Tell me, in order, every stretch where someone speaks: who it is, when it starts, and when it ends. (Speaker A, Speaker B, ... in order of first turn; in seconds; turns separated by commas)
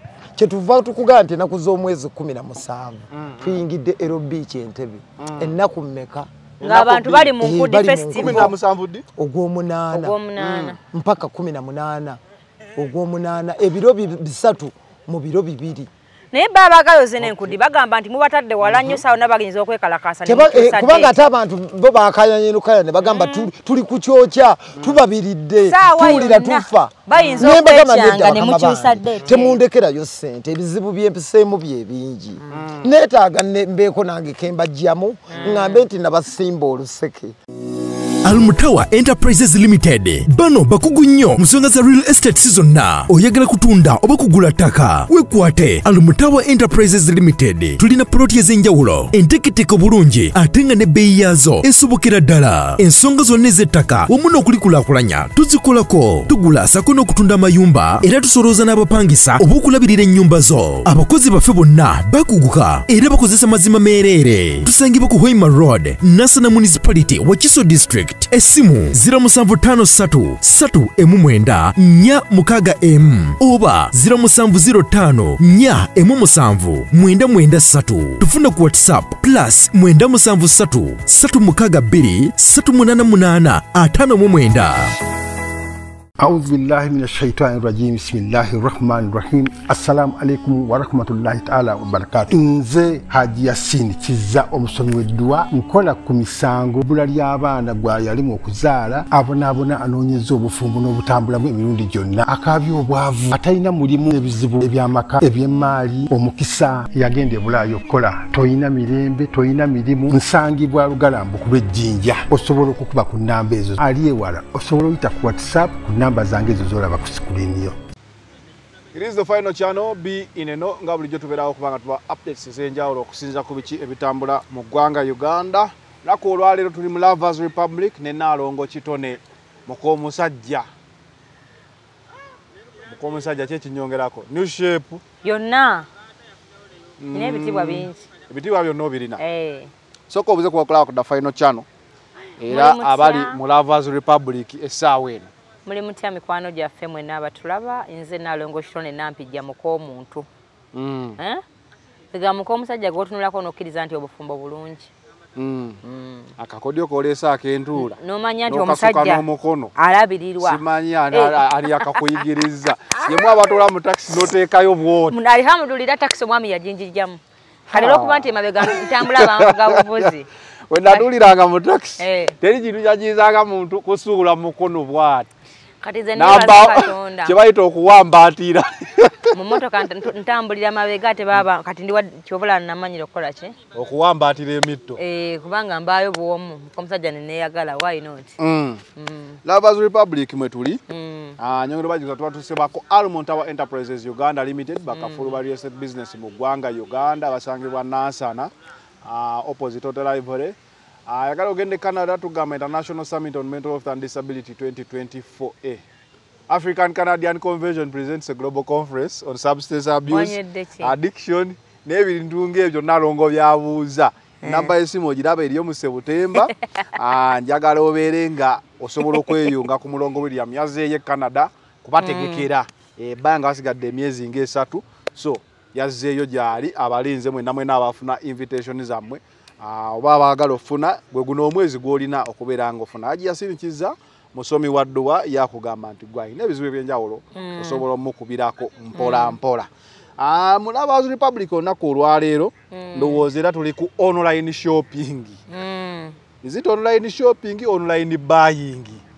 Speaker A: 0.3-6.3, Speaker B: 3.1-3.6, Speaker B: 5.2-5.5, Speaker B: 6.6-7.3, Speaker C: 6.6-8.5, Speaker A: 7.2-8.5, Speaker B: 8.1-9.0, Speaker A: 9.2-10.2, Speaker C: 9.9-10.8, Speaker B: 10.4-10.8, Speaker A: 10.8-12.2, Speaker A: 12.8-15.9, Speaker C: 16.3-21.1, Speaker B: 18.7-19.0, Speaker A: 20.2-37.3, Speaker C: 23.0-23.5, Speaker B: 24.8-25.0, Speaker C: 25.7-29.6, Speaker B: 27.1-27.5, Speaker B: 32.5-32.9, Speaker C: 35.3-35.8, Speaker D: 38.2-84.9, Speaker E: 86.2-117.8, Speaker B: 118.9-130.7, Speaker B: 132.9-135.0, Speaker C: 135.2-135.9, Speaker B: 137.0-139.2, Speaker C: 137.1-138.1, Speaker C: 139.2-139.7, Speaker B: 140.1-141.6, Speaker B: 142.4-145.3, Speaker C: 142.5-143.4, Speaker C: 145.7-150.3, Speaker B: 150.7-151.2, Speaker C: 152.1-154.9, Speaker B: 155.4-155.8, Speaker C: 155.8-156.3, Speaker B: 156.4-159.7, Speaker C: 157.8-159.2, Speaker C: 159.8-160.6, Speaker B: 160.4-165.2, Speaker C: 161.1-162.0, Speaker C: 165.1-170.3, Speaker B: 167.7-170.1, Speaker B: 170.7-175.3, Speaker C: 172.0-172.4, Speaker C: 175.8-177.3, Speaker B: 176.2-179.4, Speaker C: 179.3-183.6, Speaker B: 183.7-185.0, Speaker C: 185.0-188.4, Speaker B: 188.4-188.8, Speaker C: 189.0-189.4, Speaker B: 189.4-190.8, Speaker C: 190.9-191.4, Speaker B: 191.4-198.5, Speaker C: 194.9-195.4, Speaker B: 199.0-200.6, Speaker B: 201.1-205.8, Speaker B: 206.5-245.4, Speaker C: 210.1-210.9, Speaker C: 214.4-214.7, Speaker C: 219.1-219.3, Speaker C: 222.0-222.5, Speaker C: 237.4-237.8, Speaker C: 238.9-239.4, Speaker C: 242.7-243.2, Speaker C: 245.5-246.2, Speaker B: 246.4-249.0